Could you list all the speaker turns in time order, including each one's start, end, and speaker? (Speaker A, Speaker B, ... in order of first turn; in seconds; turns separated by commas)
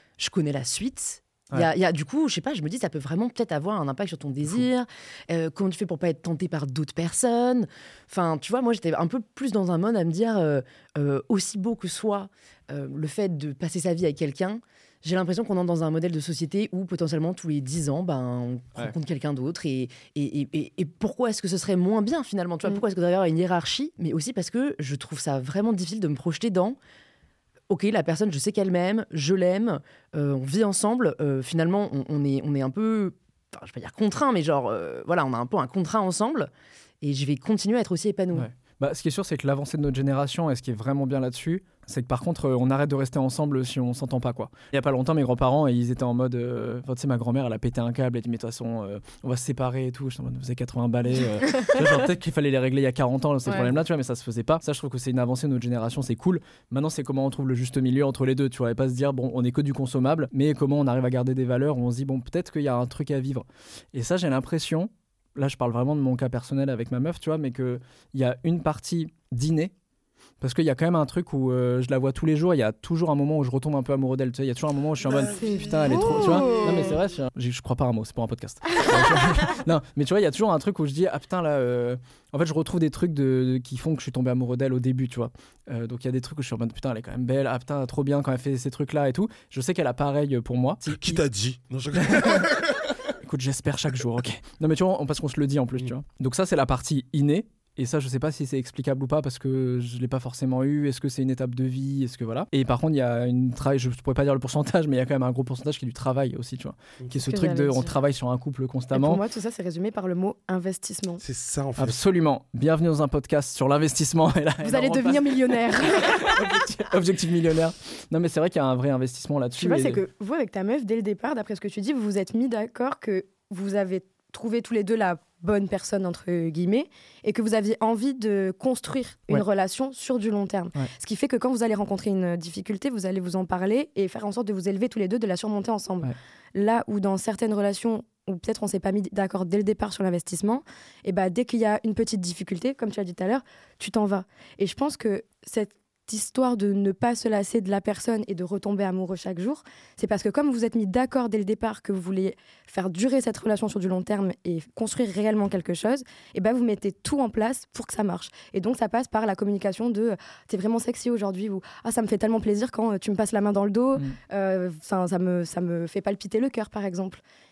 Speaker A: 0.2-26.8, Speaker A: 27.7-36.5, Speaker A: 37.0-38.5, Speaker B: 38.3-69.7, Speaker B: 70.4-91.2, Speaker C: 75.0-76.7, Speaker D: 75.4-76.9, Speaker C: 90.9-92.8, Speaker B: 92.0-92.5, Speaker B: 93.2-109.2, Speaker D: 107.1-108.0, Speaker D: 108.9-111.2, Speaker C: 111.2-112.0, Speaker B: 111.8-120.0, Speaker D: 114.6-116.5, Speaker D: 119.6-167.2